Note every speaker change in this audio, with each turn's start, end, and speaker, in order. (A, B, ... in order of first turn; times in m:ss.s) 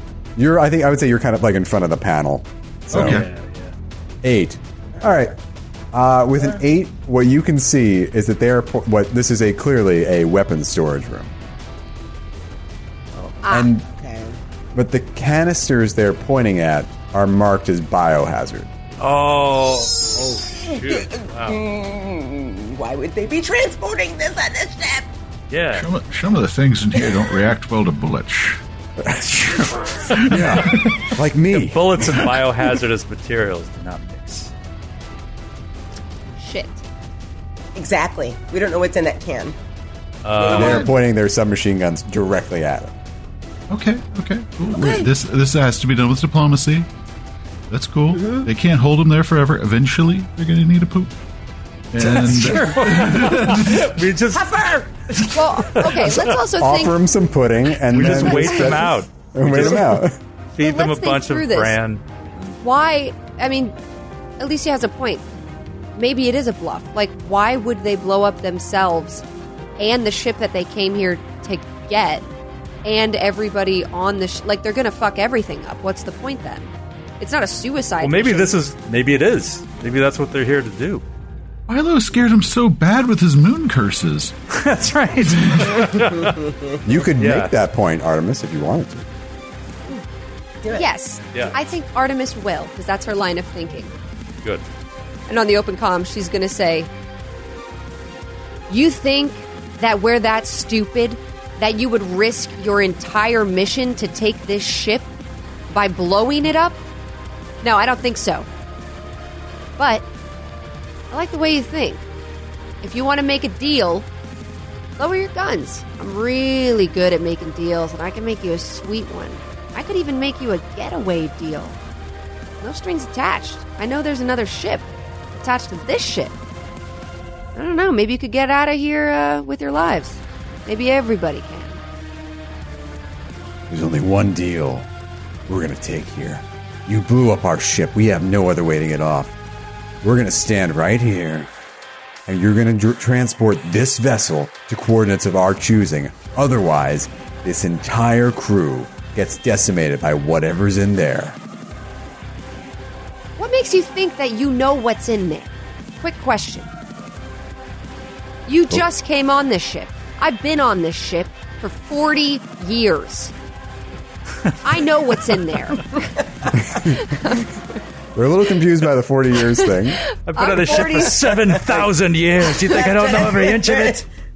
0:00.4-0:03.2 A
0:02.9-0:03.3 B
0:02.9-0:03.7 C
0:04.2-0:05.4 A
0:05.9-0:11.3 A
0:13.1-0:13.4 C
0:13.4-0:13.7 D
0:13.5-0:13.8 A
0:13.9-0:14.4 E
0:14.7-0:18.7 A
0:19.0-0:21.6 C
0:20.7-0:25.1 E
0:25.5-0:25.9 C
0:25.8-0:28.6 B
0:29.0-0:29.7 A
0:29.4-0:31.1 B
0:30.1-0:30.9 C
0:30.2-0:32.0 A
0:31.5-0:34.5 C
0:36.4-0:36.8 D
0:37.7-0:39.6 E
0:40.2-0:40.9 C
0:40.5-0:40.9 B
0:40.5-0:40.7 E
0:40.5-0:42.9 A
0:43.7-0:46.9 B
0:44.7-0:45.1 E
0:47.7-0:51.1 B
0:48.1-0:48.5 E
0:51.9-0:53.8 B
0:52.0-0:54.5 C
0:54.3-0:54.9 E
0:55.3-0:57.0 D
0:55.6-0:56.3 C
0:56.5-1:00.2 A
0:57.9-1:00.0 C
0:58.3-0:58.8 D
1:00.5-1:02.6 C
1:00.6-1:01.8 D
1:02.6-1:03.7 D
1:04.4-1:05.2 D
1:05.9-1:09.2 D
1:09.8-1:12.2 D
1:12.8-1:18.5 D
1:18.0-1:21.0 C
1:21.7-1:24.3 B
1:24.5-1:26.4 C
1:25.5-1:25.9 B
1:26.2-1:26.5 E
1:26.8-1:29.1 A
1:27.2-1:27.5 C
1:30.6-1:30.9 E
1:30.7-1:33.9 D
1:35.3-1:36.9 D
1:38.7-1:45.1 D
1:45.7-1:46.8 D
1:47.6-1:48.5 D
1:49.8-1:50.0 D
1:51.1-1:52.0 D
1:52.8-1:54.1 D
1:55.0-2:01.8 D
2:02.6-2:06.3 D
2:07.5-2:11.8 D
2:13.7-2:14.9 A
2:15.5-2:19.3 A
2:20.0-2:21.5 A
2:22.2-2:31.4 A
2:33.4-2:36.7 D
2:38.5-2:43.3 D
2:44.6-2:46.1 D
2:46.5-2:47.4 A
2:46.7-2:47.5 D
2:48.1-2:50.0 A
2:49.6-2:51.3 D
2:50.2-2:54.0 C
2:52.6-2:54.0 E